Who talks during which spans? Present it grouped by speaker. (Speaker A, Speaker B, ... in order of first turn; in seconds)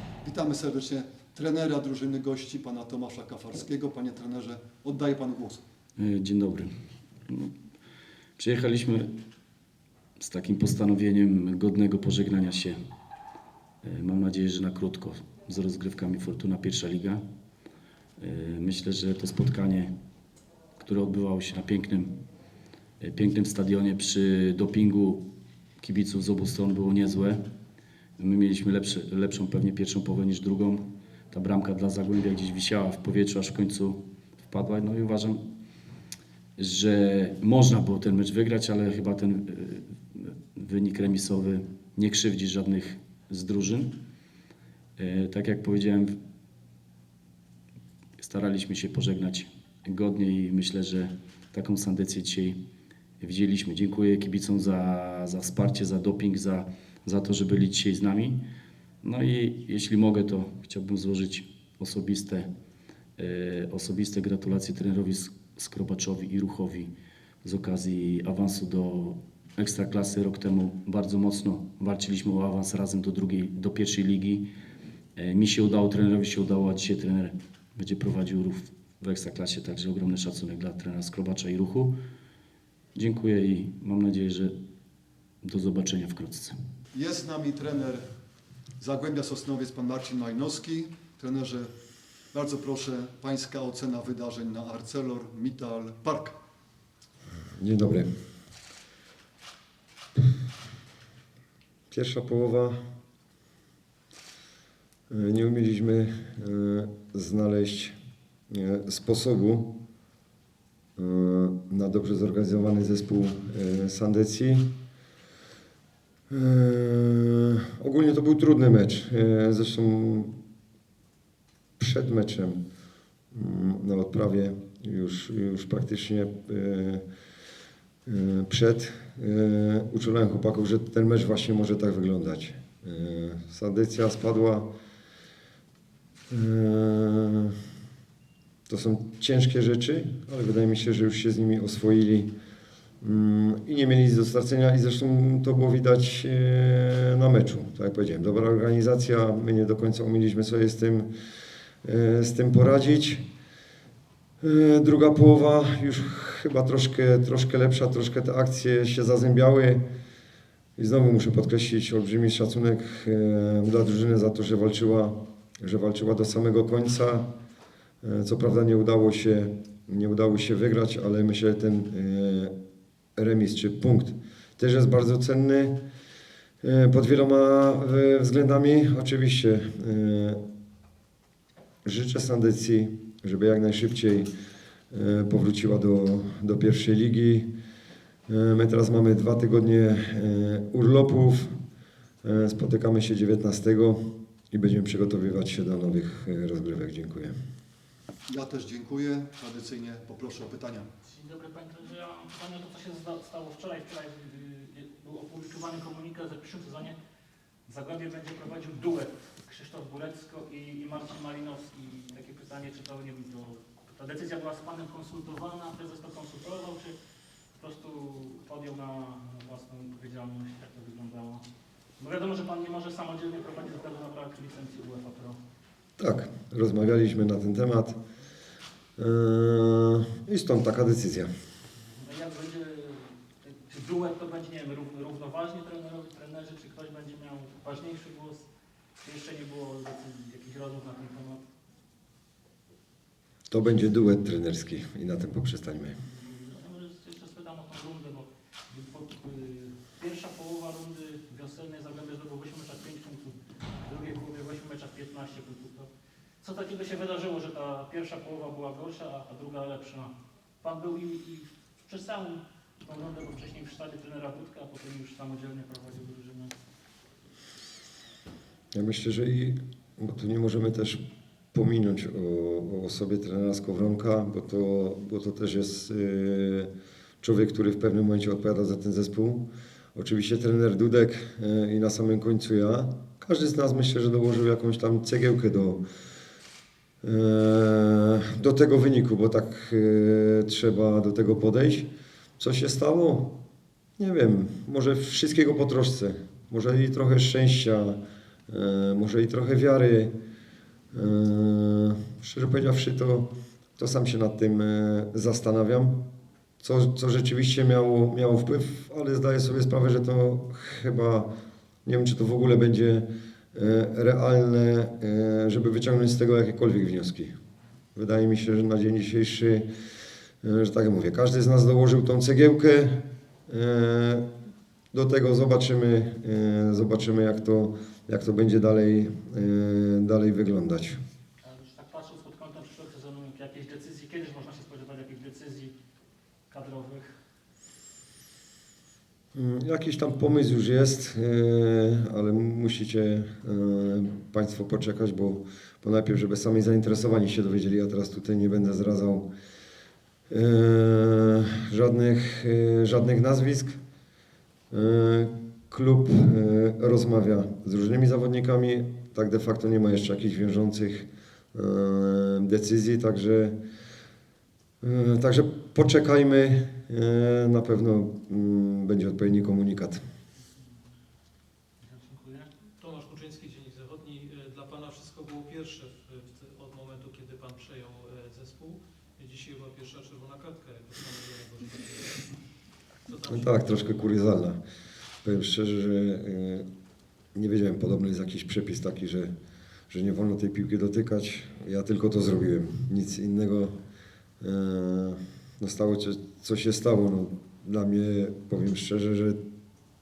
Speaker A: 0.2-5.6, 86.9-88.0, 88.8-91.7, 92.3-96.4, 198.3-200.9
Speaker B: 6.0-6.7, 8.4-9.1, 10.2-12.8, 13.8-17.2, 18.2-19.9, 20.8-22.2, 23.0-25.2, 25.8-27.4, 28.2-35.4, 36.6-43.9, 45.0-46.2, 48.2-52.6, 53.2-58.4, 59.0-62.5, 63.2-66.9, 67.4-74.5, 75.2-82.0, 83.0-84.5, 85.4-86.6
Speaker C: 97.6-98.1, 101.9-102.8, 105.1-108.0, 108.5-109.7, 111.0-114.7, 116.3-120.3, 121.8-122.6, 123.3-127.0, 128.1-134.7, 136.3-137.6, 138.7-142.3, 143.0-151.1, 151.8-153.2, 154.4-159.8, 160.8-167.3, 168.0-172.5, 173.2-175.8, 176.6-180.4, 181.8-184.3, 184.9-187.5, 188.3-191.6, 192.2-197.3, 226.0-228.0, 229.0-231.3, 243.5-246.0, 268.7-271.0, 271.5-276.7, 277.2-285.8, 287.0-291.9, 292.4-293.4, 294.0-300.1, 300.9-306.0, 306.6-311.3, 311.9-317.4, 317.9-319.7, 320.4-324.3, 324.9-331.0, 339.3-349.2, 350.3-353.8, 354.7-363.6, 364.8-370.0, 383.3-384.6, 385.2-386.7, 387.4-389.3, 389.9-393.8, 394.4-399.4
Speaker D: 201.0-207.0, 207.7-216.9, 217.6-221.4, 222.0-225.4, 231.9-238.4, 239.0-241.4, 246.1-255.9, 256.4-266.5, 331.4-335.7, 336.5-337.1, 371.8-372.5
Speaker E: 372.8-382.4, 383.1-383.8